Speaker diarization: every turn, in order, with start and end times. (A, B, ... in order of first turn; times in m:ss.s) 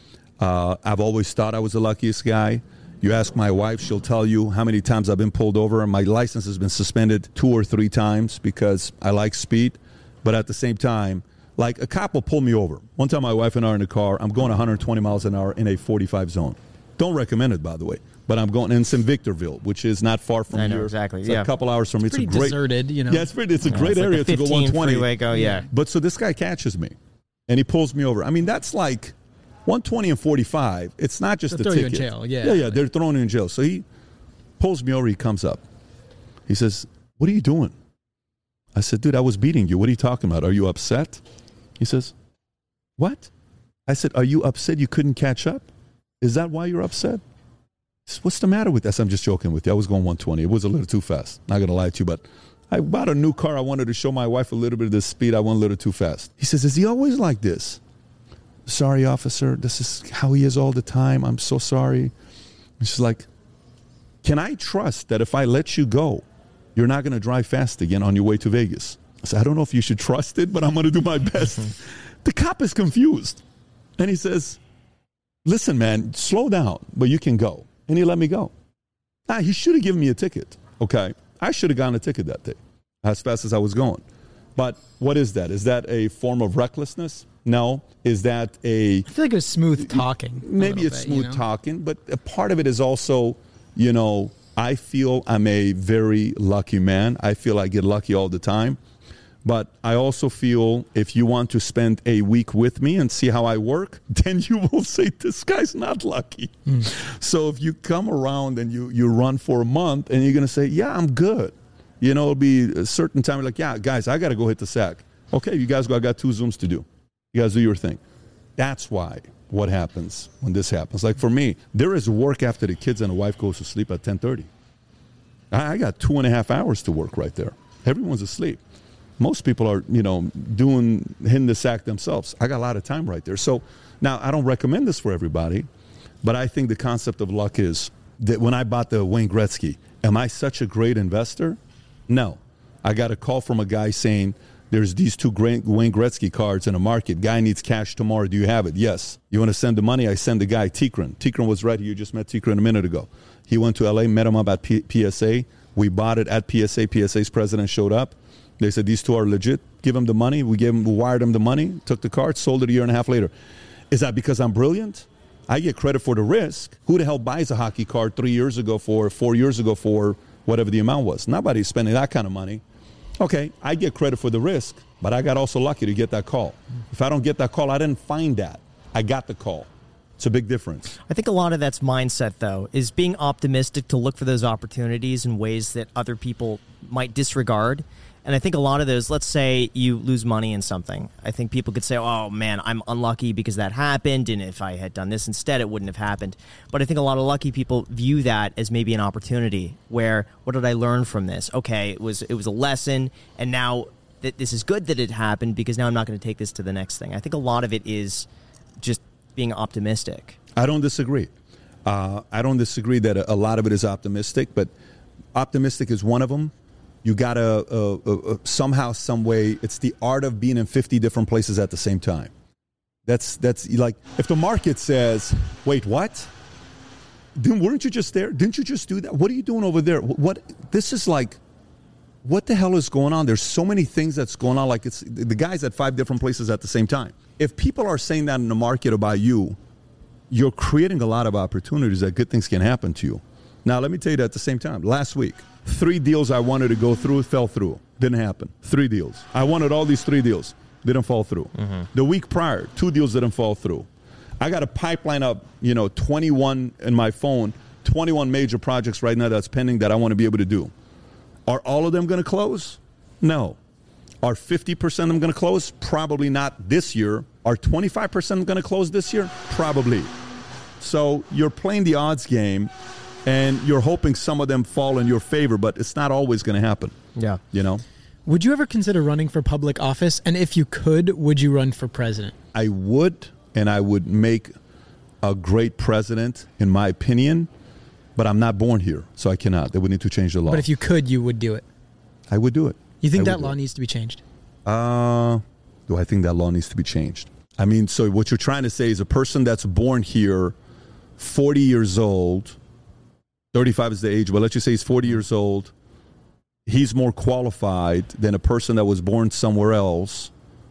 0:00.4-0:25.1 A
0:20.5-0:21.5 B
0:22.1-0:23.3 C
0:23.6-0:25.7 B
0:25.3-0:25.6 C
0:25.7-0:26.9 A
0:27.5-0:29.1 A
0:29.7-0:33.8 A
0:31.5-0:32.8 C
0:34.6-0:35.6 A
0:36.5-0:37.7 A
0:38.7-0:41.2 A
0:41.8-0:42.1 A
0:43.0-0:43.3 A
0:43.9-0:45.6 A
0:46.2-0:47.2 A
0:48.0-0:57.8 A
0:58.6-1:02.1 A
1:02.8-1:03.3 A
1:04.2-1:06.2 A
1:06.7-1:13.4 A
1:14.0-1:14.6 A
1:15.4-1:18.5 A
1:19.3-1:24.0 A
1:24.6-1:29.1 A
1:29.0-1:31.4 C
1:29.8-1:38.8 A
1:39.4-1:58.0 A
1:58.6-2:04.5 A
2:05.5-2:08.6 A
2:09.2-2:15.7 A
2:16.2-2:43.3 A
2:43.9-2:52.6 A
2:53.2-3:01.0 A
3:01.1-3:28.3 B
3:28.8-3:30.4 B
3:30.6-3:31.3 A
3:31.8-3:34.7 A
3:35.3-3:36.5 A
3:37.0-3:42.3 A
3:43.0-3:46.3 A
3:47.4-3:51.4 A
3:52.2-3:59.6 A
4:00.3-4:13.9 A
4:14.4-4:20.7 A
4:21.5-4:23.6 A
4:24.2-4:30.1 A
4:30.8-4:32.7 A
4:33.2-4:37.0 A
4:37.2-4:37.4 B
4:37.5-4:37.8 A
4:38.2-4:42.3 C
4:42.5-4:44.5 A
4:45.2-4:47.5 A
4:48.2-4:50.7 A
4:50.5-4:51.6 C
4:52.3-4:53.5 A
4:53.0-4:54.2 C
4:54.6-5:00.5 A
5:01.2-5:02.6 A
5:03.5-5:05.7 A
5:06.6-5:10.3 A